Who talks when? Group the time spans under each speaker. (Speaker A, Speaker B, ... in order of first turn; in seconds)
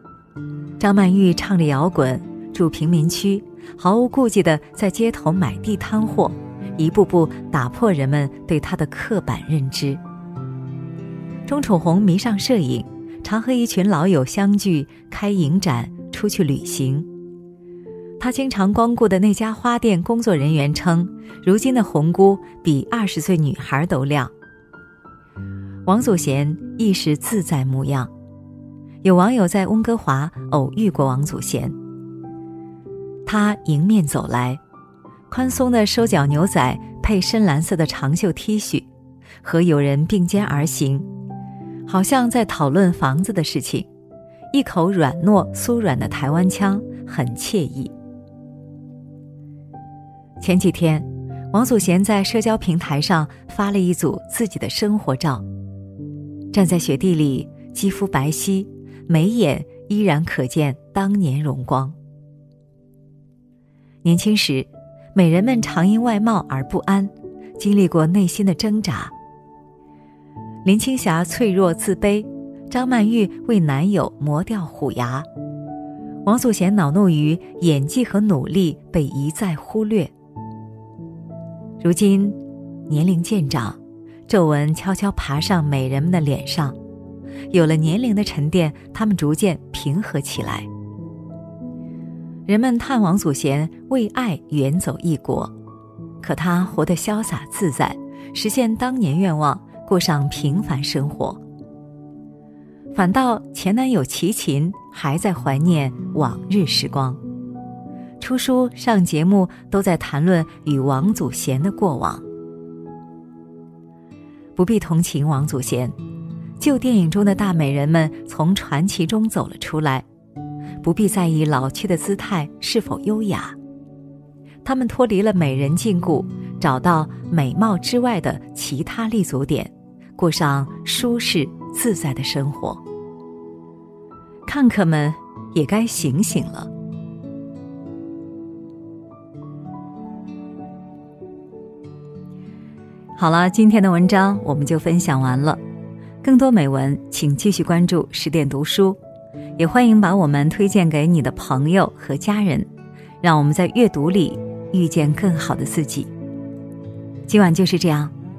Speaker A: 0.8-10.0, 11.4-17.1, 18.2-24.3, 25.9-28.1, 29.0-31.8, 33.2-34.6, 35.3-38.9, 39.4-41.0, 41.9-43.9, 44.5-47.9, 50.4-55.4, 56.5-62.0, 64.0-69.1, 70.6-75.3, 76.2-80.1, 81.8-86.8, 87.5-90.7, 92.5-95.5, 96.2-101.4, 102.9-107.2, 108.2-112.2, 114.5-115.9, 116.6-120.0, 120.8-123.5, 124.6-132.8, 134.4-136.7, 143.2-145.6, 146.2-149.0, 149.6-152.7, 153.2-156.1, 157.3-158.1